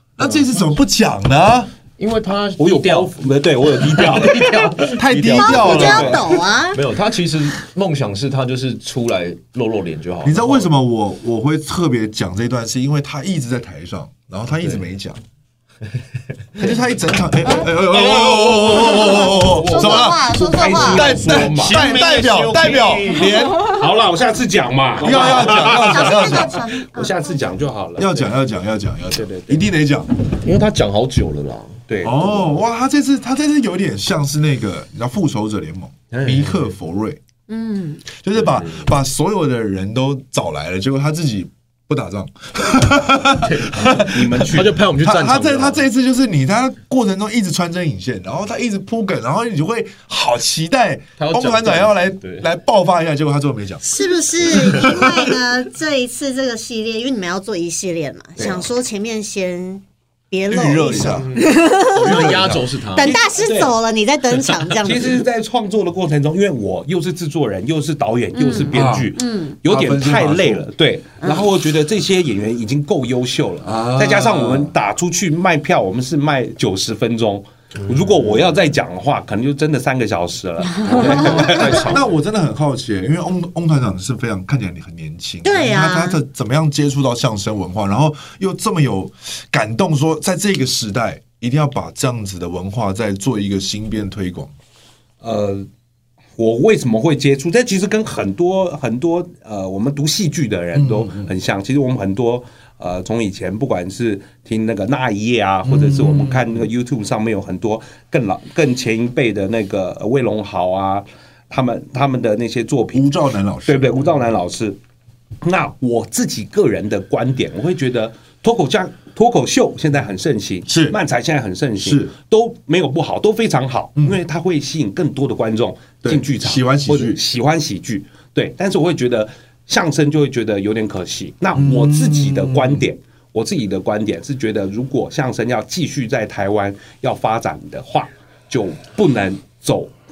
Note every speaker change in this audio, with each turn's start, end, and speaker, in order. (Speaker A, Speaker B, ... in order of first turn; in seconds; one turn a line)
Speaker A: 0.2-1.7
Speaker B: 2.0-3.1
Speaker C: 2.6-4.9
Speaker B: 3.8-10.7
Speaker A: 4.9-6.3
Speaker D: 5.4-6.8
Speaker C: 5.6-6.3
Speaker A: 10.2-15.2
Speaker A: 16.6-23.8
Speaker D: 17.5-21.2
Speaker B: 18.8-20.1
Speaker C: 20.3-21.8
Speaker B: 21.2-23.3
Speaker C: 22.6-28.3
Speaker D: 23.1-23.8
Speaker A: 25.0-26.6
Speaker D: 25.1-27.3
Speaker A: 28.0-30.1
Speaker C: 29.1-29.7
Speaker B: 30.4-31.8
Speaker C: 31.9-32.2
Speaker A: 32.0-37.2
Speaker B: 36.1-36.7
Speaker D: 37.5-38.1
Speaker A: 38.2-53.9
Speaker B: 38.4-38.9
Speaker B: 43.4-45.9
Speaker C: 44.0-44.8
Speaker B: 51.2-52.5
Speaker D: 53.8-62.4
Speaker A: 54.5-55.3
Speaker A: 60.5-61.3
Speaker B: 61.0-63.2
Speaker A: 62.0-62.7
Speaker D: 62.9-65.2
Speaker C: 63.0-63.8
Speaker C: 64.7-81.9
Speaker D: 68.3-69.6
Speaker A: 68.7-69.1
Speaker A: 69.7-70.7
Speaker A: 73.6-74.7
Speaker D: 80.6-81.6
Speaker B: 80.9-82.1
Speaker A: 81.2-94.5
Speaker D: 85.4-86.2
Speaker C: 95.2-95.7
Speaker C: 96.4-113.1
Speaker A: 100.8-101.3
Speaker A: 105.6-106.6
Speaker A: 112.9-113.9
Speaker C: 113.7-114.8
Speaker C: 115.4-139.9
Speaker A: 120.7-121.0
Speaker A: 121.8-122.1
Speaker A: 126.0-127.2
Speaker A: 131.6-132.9